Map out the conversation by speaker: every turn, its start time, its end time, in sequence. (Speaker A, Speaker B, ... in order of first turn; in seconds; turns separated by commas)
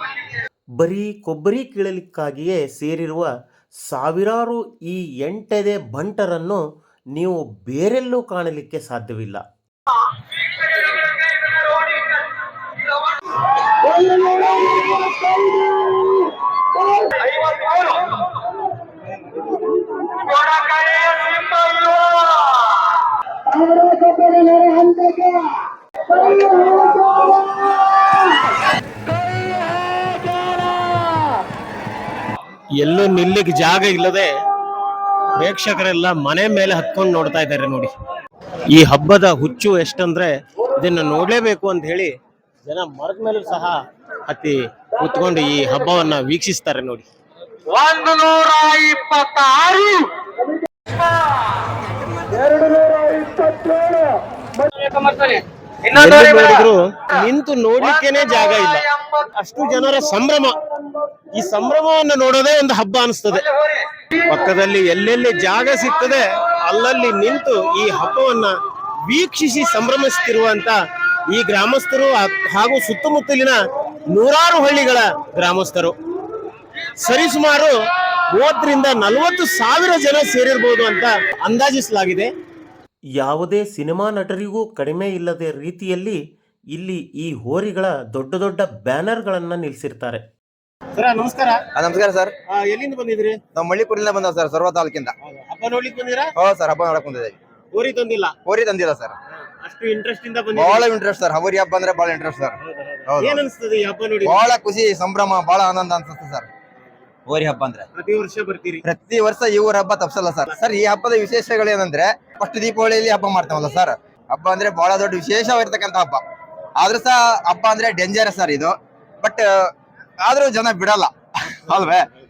Speaker A: 0.8-3.3, Speaker A: 3.9-9.4, Speaker B: 14.1-14.4, Speaker C: 20.7-22.4, Speaker B: 32.8-34.3, Speaker B: 35.4-37.9, Speaker B: 38.7-42.1, Speaker B: 42.7-43.8, Speaker B: 44.3-47.1, Speaker C: 48.3-50.0, Speaker B: 55.9-60.6, Speaker B: 61.4-68.5, Speaker B: 69.1-70.8, Speaker B: 71.3-73.6, Speaker B: 74.1-75.9, Speaker B: 76.8-82.3, Speaker A: 83.2-86.2, Speaker A: 86.7-90.2, Speaker B: 91.0-91.6, Speaker C: 91.8-92.3, Speaker B: 92.5-93.4, Speaker C: 93.5-95.1, Speaker B: 95.3-96.3, Speaker C: 96.4-97.3, Speaker B: 97.8-98.4, Speaker C: 98.5-99.2, Speaker B: 99.6-100.8, Speaker C: 100.5-102.6, Speaker B: 102.7-104.5, Speaker C: 103.1-103.5, Speaker C: 104.2-106.5, Speaker C: 107.3-107.9, Speaker B: 108.0-108.8, Speaker C: 108.8-116.2, Speaker C: 116.8-122.1